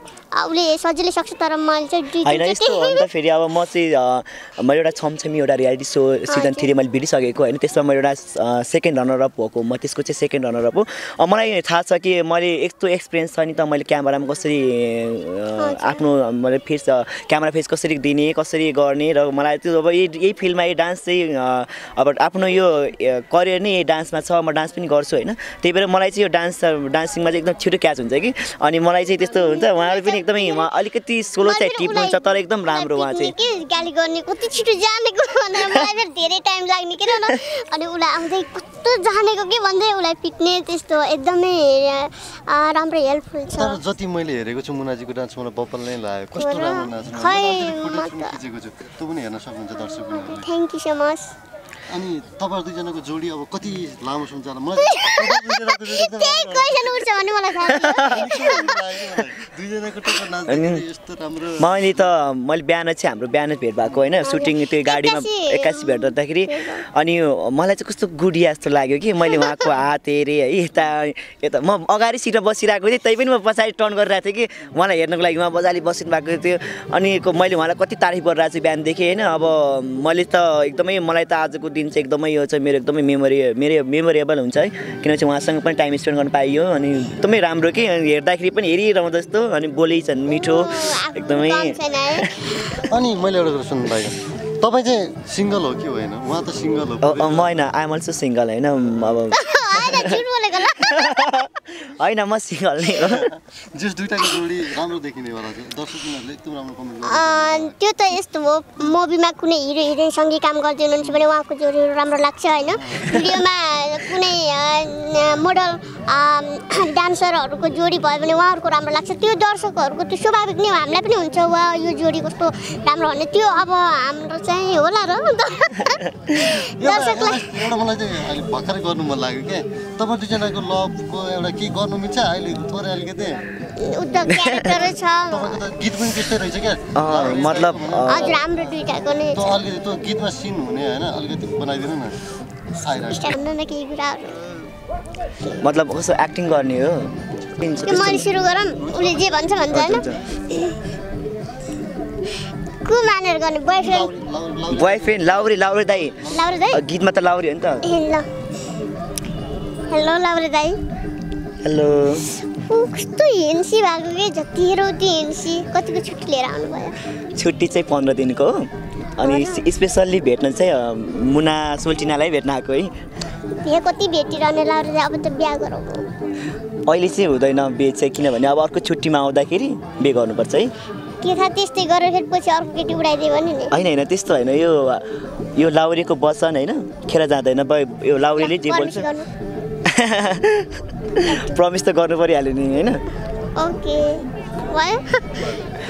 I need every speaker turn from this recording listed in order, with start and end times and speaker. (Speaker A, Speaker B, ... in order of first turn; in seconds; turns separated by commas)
Speaker A: 0.3-3.1, Speaker B: 2.2-33.3, Speaker A: 6.3-6.7, Speaker A: 15.6-16.0, Speaker A: 29.3-30.7, Speaker A: 31.4-43.8, Speaker C: 43.5-50.5, Speaker A: 46.4-48.4, Speaker A: 50.1-51.3, Speaker C: 51.9-57.1, Speaker A: 54.8-58.8, Speaker B: 57.8-58.3, Speaker C: 57.9-62.0, Speaker B: 60.5-60.8, Speaker B: 61.6-92.6, Speaker A: 64.2-66.8, Speaker A: 69.3-69.6, Speaker A: 90.3-92.9, Speaker C: 92.9-97.6, Speaker B: 97.0-100.2, Speaker C: 98.9-99.1, Speaker A: 99.3-101.4, Speaker B: 100.8-103.3, Speaker C: 103.0-107.7, Speaker A: 107.0-127.7, Speaker C: 112.7-113.3, Speaker C: 126.6-133.4, Speaker A: 133.8-135.7, Speaker B: 134.2-134.9, Speaker C: 135.3-138.8, Speaker B: 136.9-138.4, Speaker A: 138.1-139.6, Speaker C: 139.3-142.2, Speaker C: 142.8-143.4, Speaker A: 142.9-144.4, Speaker B: 145.6-148.3, Speaker A: 147.8-150.8, Speaker C: 148.9-149.2, Speaker B: 149.7-150.2, Speaker A: 152.8-154.1, Speaker C: 153.8-156.4, Speaker B: 154.7-157.9, Speaker A: 156.3-156.8, Speaker A: 157.8-158.3, Speaker A: 159.9-160.8, Speaker B: 161.6-162.3, Speaker A: 162.5-166.9, Speaker B: 167.3-172.9, Speaker A: 169.2-169.6, Speaker A: 173.6-176.1, Speaker B: 176.9-180.7, Speaker A: 181.2-183.8, Speaker B: 183.7-189.1, Speaker A: 188.4-189.3, Speaker B: 189.9-193.0, Speaker A: 191.2-191.6, Speaker A: 193.6-195.4